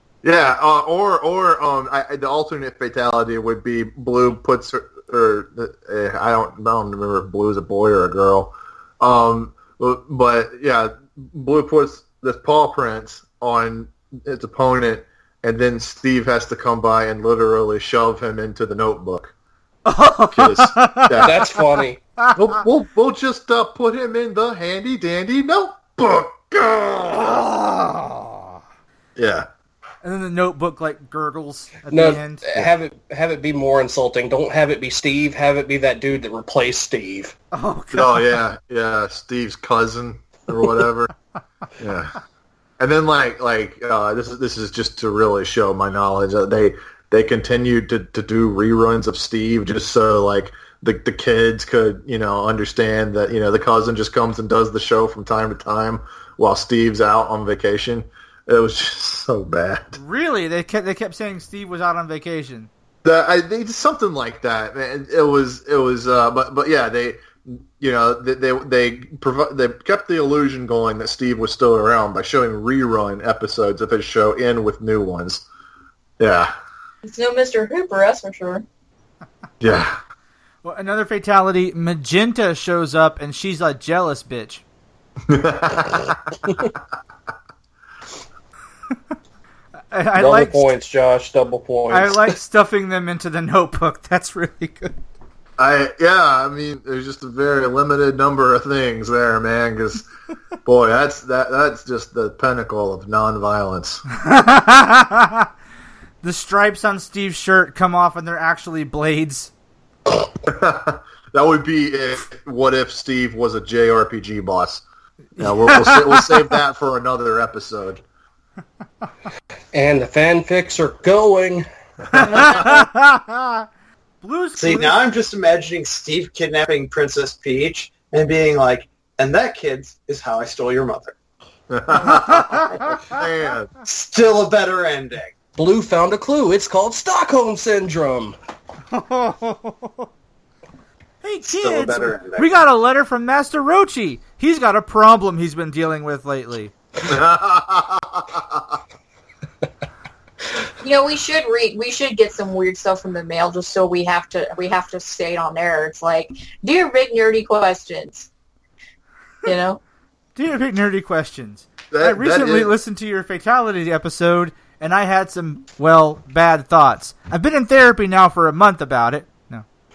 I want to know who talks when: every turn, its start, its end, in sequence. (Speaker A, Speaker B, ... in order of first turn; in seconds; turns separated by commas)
Speaker A: 0.2-19.3, Speaker B: 19.8-21.4, Speaker A: 20.3-21.4, Speaker C: 21.2-22.0, Speaker A: 22.3-27.4, Speaker B: 27.4-28.6, Speaker A: 29.1-29.5, Speaker B: 30.0-32.4, Speaker C: 31.9-37.4, Speaker B: 37.5-38.3, Speaker A: 37.9-41.1, Speaker A: 41.8-42.1, Speaker A: 42.8-60.0, Speaker B: 60.0-62.7, Speaker A: 63.0-75.4, Speaker A: 76.2-76.5, Speaker D: 77.0-78.6, Speaker A: 79.6-80.0, Speaker B: 80.6-84.6, Speaker A: 85.3-86.3, Speaker B: 89.9-90.6, Speaker C: 90.2-92.3, Speaker B: 91.9-94.9, Speaker A: 95.6-100.0, Speaker A: 100.6-104.0, Speaker B: 104.2-105.5, Speaker B: 106.2-109.5, Speaker A: 110.2-114.8, Speaker A: 115.4-118.0, Speaker B: 115.4-116.3, Speaker C: 119.7-121.6, Speaker B: 122.1-123.7, Speaker B: 124.2-125.0, Speaker E: 124.6-131.2, Speaker A: 131.7-133.7, Speaker B: 132.0-133.2, Speaker E: 132.1-133.0, Speaker E: 133.8-135.3, Speaker C: 135.6-138.3, Speaker B: 138.9-140.1, Speaker B: 141.2-146.7, Speaker E: 141.4-142.6, Speaker A: 147.0-148.8, Speaker D: 150.8-158.3, Speaker D: 159.4-159.8, Speaker B: 160.3-169.6, Speaker A: 161.9-162.7